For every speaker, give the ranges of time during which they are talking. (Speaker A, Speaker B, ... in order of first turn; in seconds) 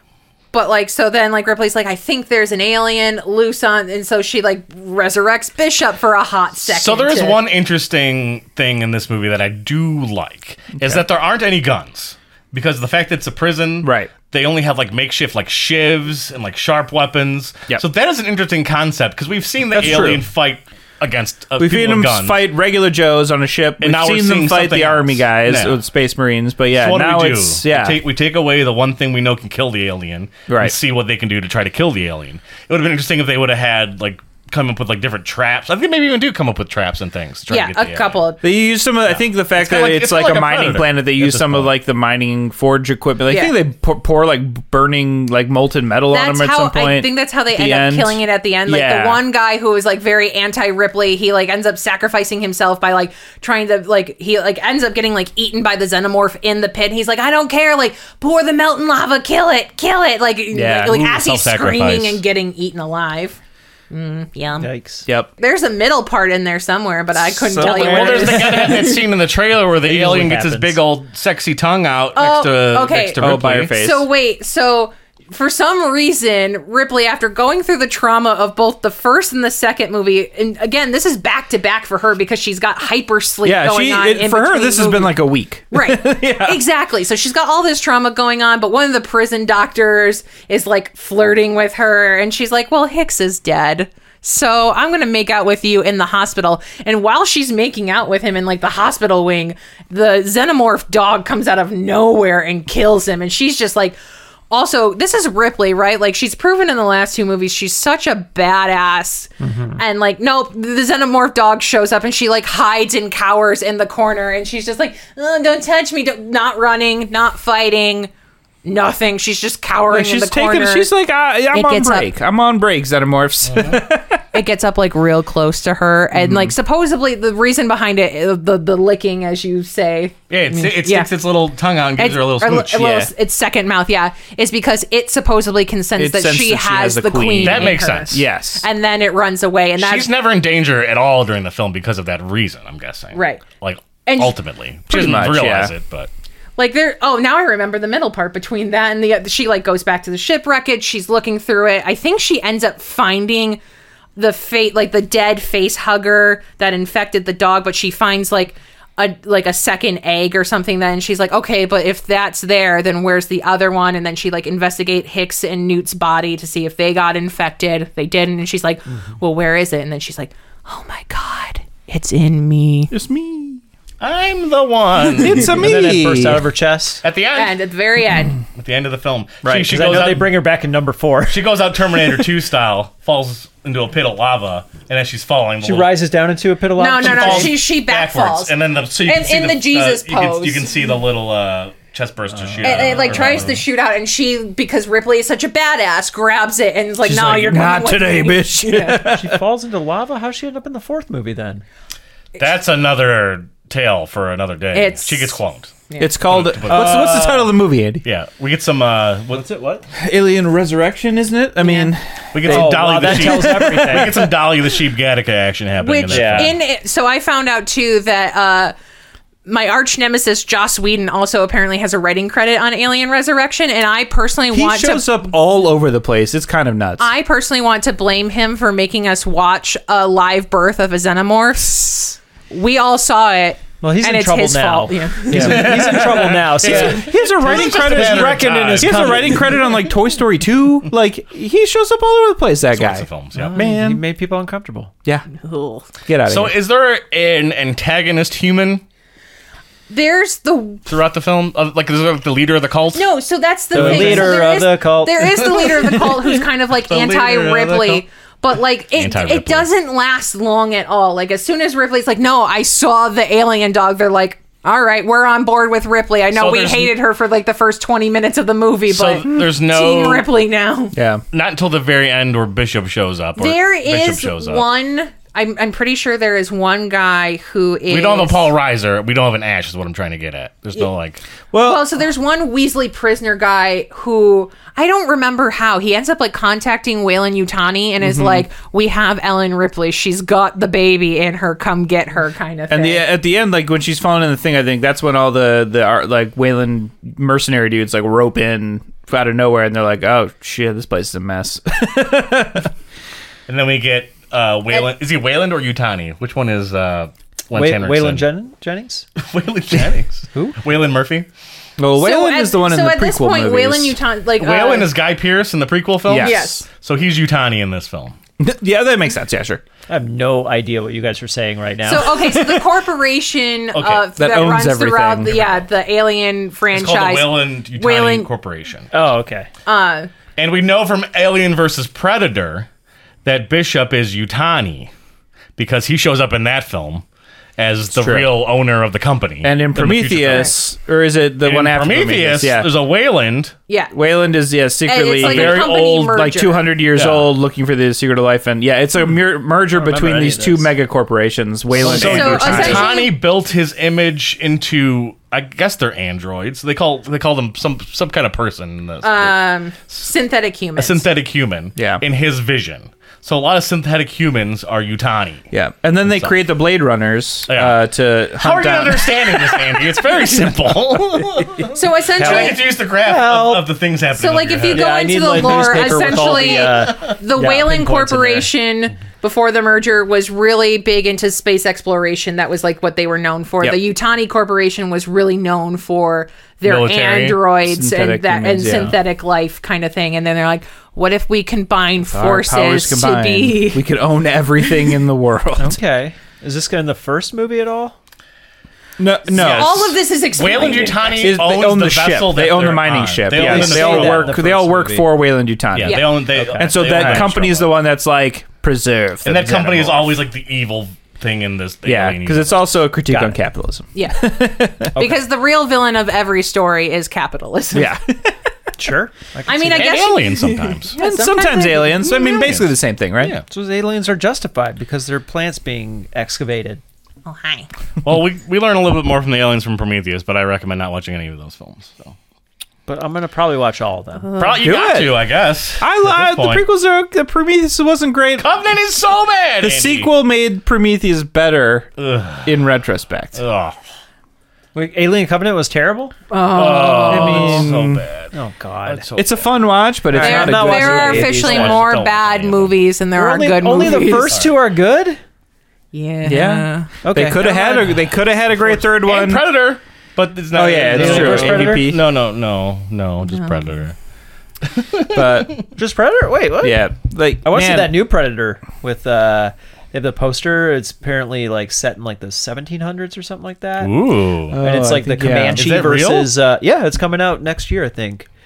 Speaker A: 0.5-7.4, 37.5-38.5, 43.3-43.5, 46.1-63.4, 63.9-64.7, 65.4-69.0, 72.2-85.1, 85.7-104.0, 104.5-118.1, 118.7-120.9, 121.5-122.1, 124.3-131.1, 132.0-140.1, 143.1-143.4, 144.1-144.4, 146.6-153.6, 154.2-172.9, 177.3-178.4, 186.8-190.8, 192.6-199.0, 204.7-206.2, 211.6-211.9, 215.8-218.7, 219.5-225.2, 227.0-235.7, 245.3-245.9, 249.9-250.8, 252.9-270.9, 273.4-278.5, 281.6-293.1, 312.0-314.9, 316.1-316.7, 321.9-328.3, 329.7-330.1, 343.7-343.9, 344.9-346.7, 351.9-353.1, 359.0-361.1, 371.7-372.6, 374.1-393.9, 399.3-401.3, 405.8-406.2, 413.9-414.4, 415.0-418.0, 419.5-422.4, 427.3-427.7, 434.3-434.6, 446.3-447.4, 450.2-454.4, 455.9-456.9, 463.3-463.5
Speaker B: 6.6-22.4, 23.8-25.8, 26.8-38.2, 39.1-41.7, 60.9-62.2, 67.6-73.8, 123.5-123.8, 130.3-132.8, 137.4-138.2, 139.8-146.1, 174.0-175.6, 177.0-177.6, 178.6-180.3, 181.3-185.9, 187.0-193.6, 202.4-207.4, 208.0-209.5, 212.3-216.6, 235.3-239.4, 242.7-243.6, 246.3-248.8, 250.9-253.1, 253.7-254.4, 256.8-258.0, 258.9-259.7, 266.3-266.9, 268.9-270.3, 271.3-274.6, 277.9-281.2, 303.5-308.3, 309.2-311.3, 314.4-318.2, 323.7-324.1, 326.7-328.9, 330.4-332.7, 333.2-334.9, 335.6-337.0, 337.6-340.6, 341.4-343.6, 345.2-346.1, 346.9-347.3, 351.8-359.4, 360.8-365.5, 366.1-366.4, 367.5-367.8, 368.4-374.9, 376.1-377.1, 386.6-387.4, 399.3-404.4, 405.7-407.7, 409.2-412.7, 419.7-421.0, 422.2-423.4, 428.0-432.1, 434.4-436.6, 438.4-440.1, 442.0-442.5, 443.4-443.8, 446.5-448.3, 448.9-449.5, 451.3-452.8, 454.3-454.6, 458.7-463.9, 464.6-465.6, 473.8-474.6, 475.6-476.3
Speaker C: 10.8-11.0, 13.8-14.1, 19.7-20.2, 21.6-28.0, 30.5-30.8, 38.4-49.2, 60.5-61.0, 67.2-68.7, 73.2-74.1, 83.4-86.6, 119.9-124.2, 126.1-126.6, 132.7-133.1, 136.0-138.7, 144.9-145.7, 172.9-173.6, 175.1-176.5, 197.0-199.4, 206.0-208.0, 210.0-214.2, 224.5-227.1, 235.3-244.0, 246.1-246.6, 270.9-271.2, 281.5-281.9, 288.0-288.5, 292.7-302.7, 311.8-314.0, 316.1-316.6, 318.4-319.6, 324.2-325.5, 337.9-338.3, 339.4-342.7, 343.9-352.9, 361.8-362.0, 365.5-369.8, 387.6-389.0, 392.1-395.8, 399.0-399.9, 401.2-410.2, 411.9-414.9, 417.7-418.3, 421.0-423.4, 434.6-435.2, 435.8-438.5, 439.6-441.9, 442.4-443.4, 446.7-448.1, 449.1-451.6, 456.2-459.5, 460.5-462.1, 465.1-465.6, 466.6-468.0, 474.5-475.6
Speaker D: 64.6-65.1, 69.8-70.8, 109.4-109.8, 175.4-177.0, 179.4-181.6, 185.6-187.6, 192.3-193.5, 199.0-201.6, 206.7-207.4, 209.3-209.8, 212.5-214.3, 216.1-216.5, 233.8-239.7, 243.4-244.9, 253.7-255.9, 307.5-309.1, 310.3-310.6, 319.9-322.7, 328.9-329.5, 349.7-350.7, 351.8-352.8, 372.2-373.7, 374.7-378.5, 395.6-397.9, 403.3-405.1, 406.3-407.3, 413.1-413.4, 414.9-415.2, 418.8-420.1, 423.5-426.8, 432.9-434.3, 444.8-446.1, 447.1-447.7, 448.3-449.1, 450.1-452.0, 453.2-455.2, 457.0-457.8, 460.9-461.9, 465.8-466.9, 467.4-473.9, 474.6-478.3